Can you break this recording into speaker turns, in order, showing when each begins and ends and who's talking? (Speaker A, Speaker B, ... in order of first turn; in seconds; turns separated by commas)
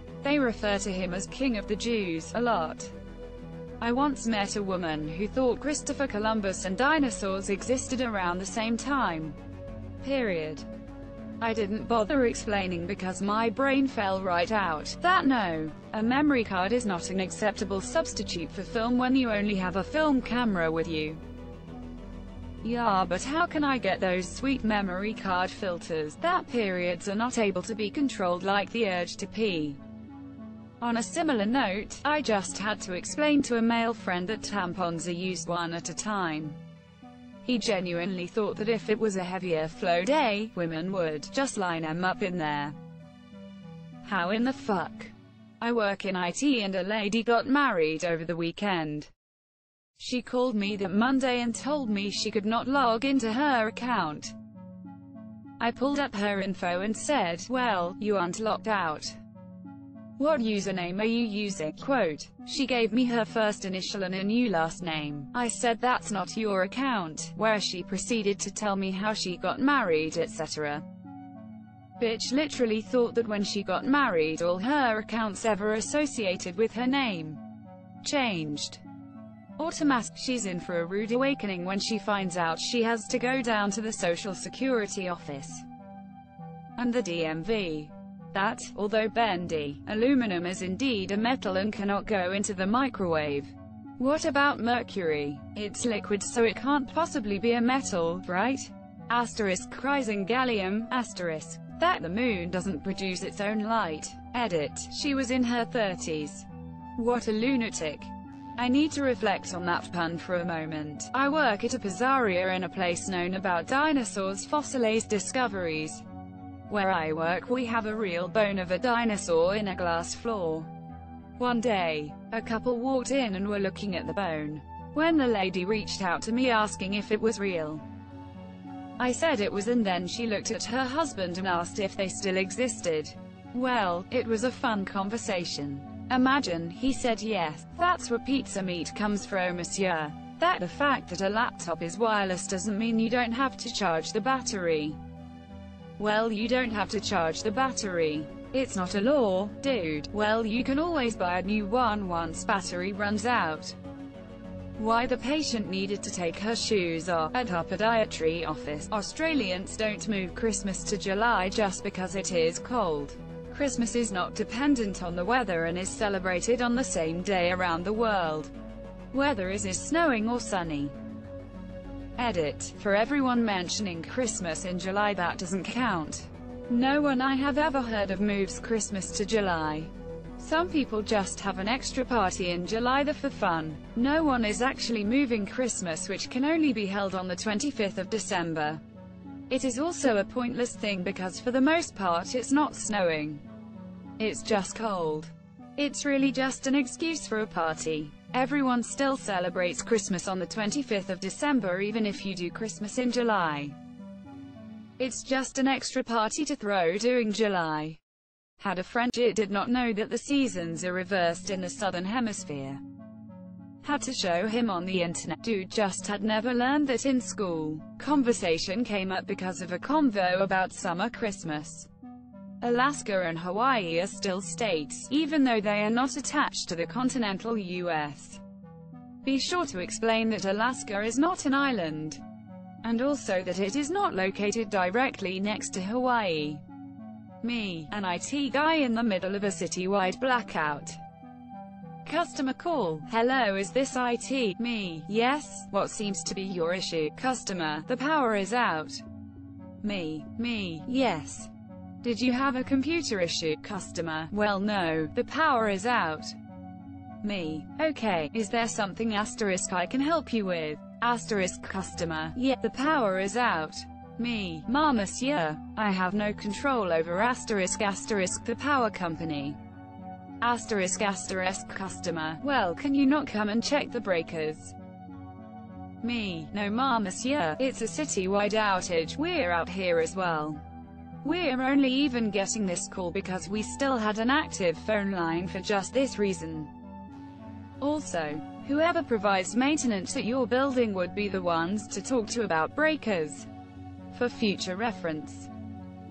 Speaker A: 0.2-2.9, Speaker A: 3.8-9.4, Speaker A: 10.0-10.7, Speaker A: 11.4-21.2, Speaker A: 22.6-29.8, Speaker A: 30.8-36.6, Speaker A: 37.4-42.8, Speaker A: 44.0-49.1, Speaker A: 50.0-54.3, Speaker A: 55.6-59.2, Speaker A: 60.2-70.8, Speaker A: 72.0-77.4, Speaker A: 78.0-78.8, Speaker A: 79.6-85.7, Speaker A: 86.8-116.0, Speaker A: 116.7-120.7, Speaker A: 121.4-127.8, Speaker A: 129.0-145.0, Speaker A: 146.0-153.8, Speaker A: 154.8-168.5, Speaker A: 169.1-170.9, Speaker A: 172.2-188.8, Speaker A: 189.5-193.4, Speaker A: 194.2-203.8, Speaker A: 205.0-208.0, Speaker A: 208.6-212.8, Speaker A: 213.8-221.9, Speaker A: 222.6-228.4, Speaker A: 229.2-232.2, Speaker A: 232.8-236.6, Speaker A: 237.4-241.0, Speaker A: 242.1-249.0, Speaker A: 249.8-251.5, Speaker A: 252.0-256.4, Speaker A: 257.2-269.6, Speaker A: 270.4-274.8, Speaker A: 276.0-280.6, Speaker A: 281.2-286.7, Speaker A: 287.8-293.5, Speaker A: 294.1-295.5